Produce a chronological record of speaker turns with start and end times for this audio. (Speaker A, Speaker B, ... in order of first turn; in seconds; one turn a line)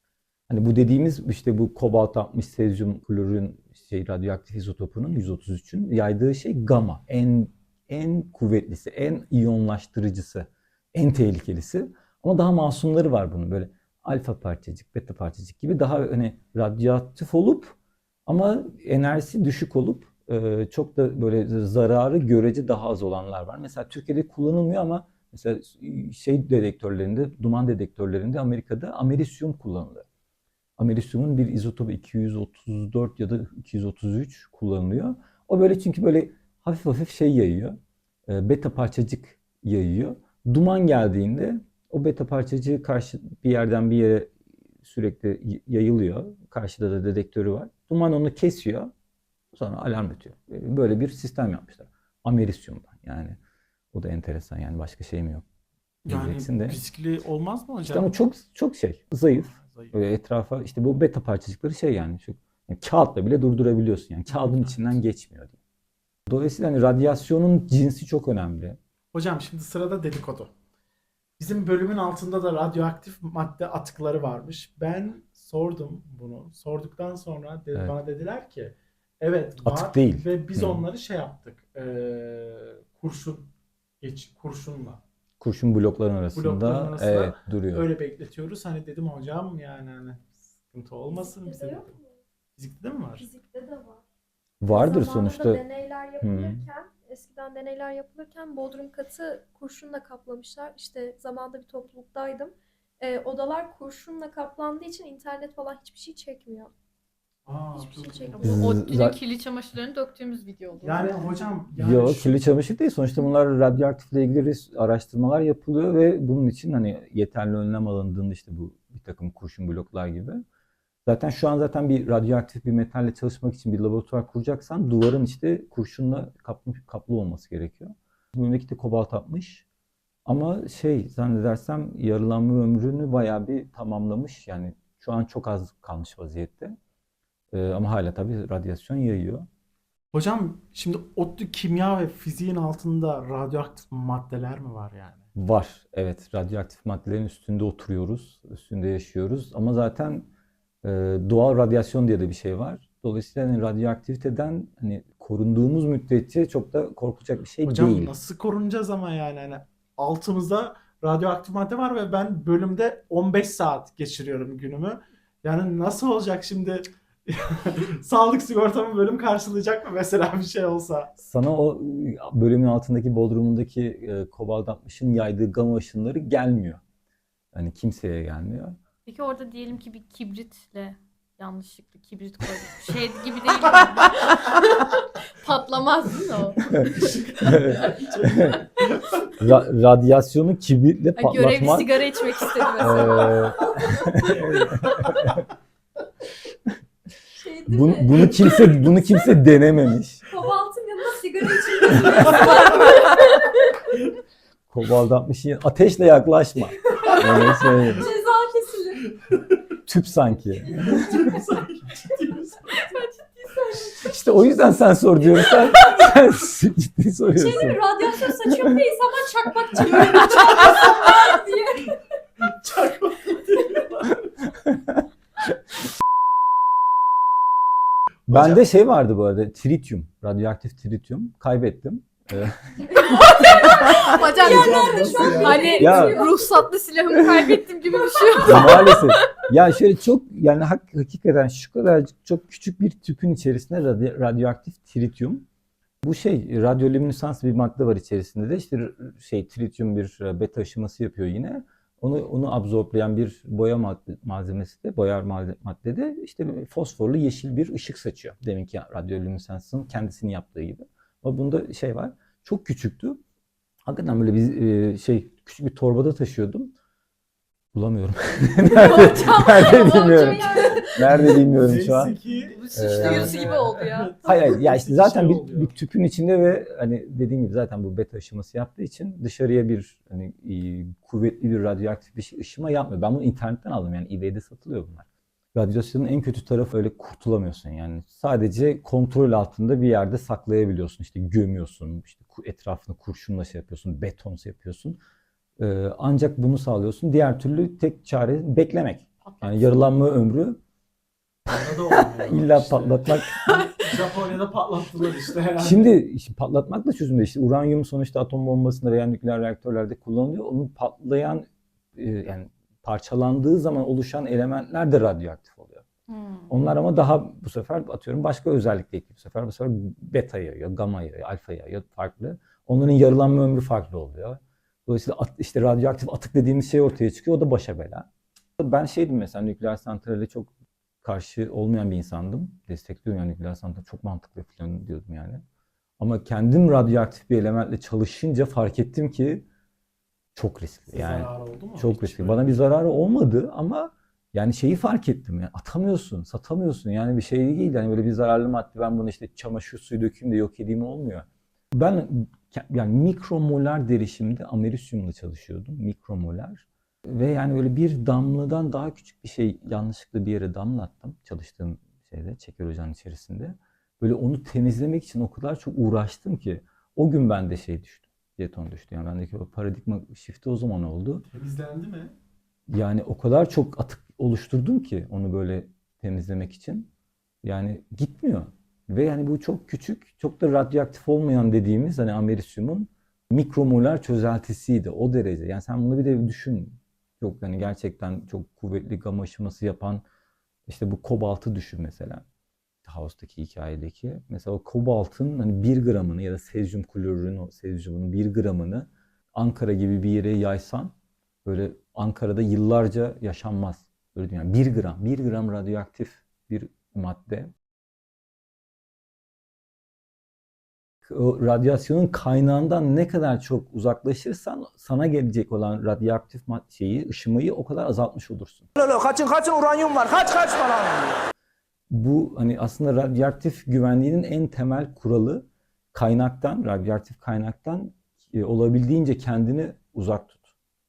Speaker A: 0.5-17.7
Speaker A: 18.3-30.0
Speaker A: 30.8-37.8
Speaker A: 38.3-48.9
Speaker A: 49.5-53.4
Speaker A: 53.9-55.4
Speaker B: 56.0-58.1
Speaker A: 56.1-56.8
Speaker A: 57.8-65.6
Speaker B: 59.3-59.9
Speaker B: 64.3-64.9
Speaker A: 66.3-68.8
Speaker B: 69.1-70.5
Speaker B: 71.4-83.5
Speaker A: 79.6-80.8
Speaker B: 84.0-85.0
Speaker A: 85.4-87.9
Speaker B: 86.3-91.9
Speaker C: 91.1-92.2
Speaker B: 92.6-93.3
Speaker C: 93.2-94.0
Speaker A: 94.6-95.6
Speaker C: 94.7-106.7
Speaker A: 96.2-96.6
Speaker B: 107.4-108.5
Speaker C: 107.7-108.7
Speaker D: 108.4-111.2
Speaker A: 108.4-109.2
Speaker B: 110.8-112.4
Speaker A: 111.8-120.4
Speaker A: 121.0-129.6
Speaker A: 130.2-136.7
Speaker A: 137.5-139.4
Speaker B: 140.1-145.2
Speaker A: 145.3-150.3
Speaker A: 150.8-158.1
Speaker B: 157.6-171.1
Speaker A: 171.2-176.8
Speaker A: 177.5-178.8
Speaker D: 179.0-187.3
Speaker B: 187.0-189.0
Speaker A: 187.4-188.6
Speaker A: 189.3-192.0
Speaker D: 191.2-193.5
Speaker A: 192.8-195.4
Speaker C: 192.8-195.0
Speaker C: 197.3-199.3
Speaker A: 197.7-200.2
Speaker C: 200.3-203.8
Speaker B: 201.7-202.9
Speaker A: 202.1-202.7
Speaker A: 204.7-208.1
Speaker C: 206.9-209.1
Speaker A: 209.8-211.3
Speaker B: 210.9-212.9
Speaker C: 212.7-214.1
Speaker A: 213.8-218.8
Speaker C: 215.4-215.7
Speaker C: 217.3-222.0
Speaker B: 220.4-221.1
Speaker B: 222.4-224.3
Speaker A: 224.6-225.0
Speaker A: 228.3-234.1
Speaker B: 228.3-228.6
Speaker C: 233.0-236.3
Speaker D: 233.1-239.3
Speaker B: 234.4-235.7
Speaker A: 235.7-236.3
Speaker A: 238.4-245.4
Speaker A: 246.0-263.2
Speaker A: 263.9-266.7
Speaker A: 267.7-272.2
Speaker D: 268.6-270.9
Speaker C: 270.6-271.1
Speaker B: 271.0-275.8
Speaker D: 272.4-274.1
Speaker A: 272.7-273.3
Speaker A: 274.2-295.0
Speaker A: 295.6-300.6
Speaker D: 299.3-299.7
Speaker B: 301.5-303.2
Speaker A: 302.1-303.6
Speaker D: 303.5-303.8
Speaker B: 303.8-305.9
Speaker A: 305.6-315.8
Speaker D: 316.1-316.5
Speaker A: 316.5-328.1
Speaker A: 328.6-330.5
Speaker A: 331.0-335.4
Speaker A: 336.0-339.4
Speaker A: 340.4-371.2
Speaker B: 340.9-342.6
Speaker B: 371.2-372.1
Speaker A: 372.7-376.9
Speaker A: 377.4-390.0
Speaker A: 390.7-392.2
Speaker A: 392.8-400.9
Speaker A: 401.4-407.5
Speaker A: 411.0-418.7
Speaker E: 418.8-421.1
Speaker A: 421.9-430.4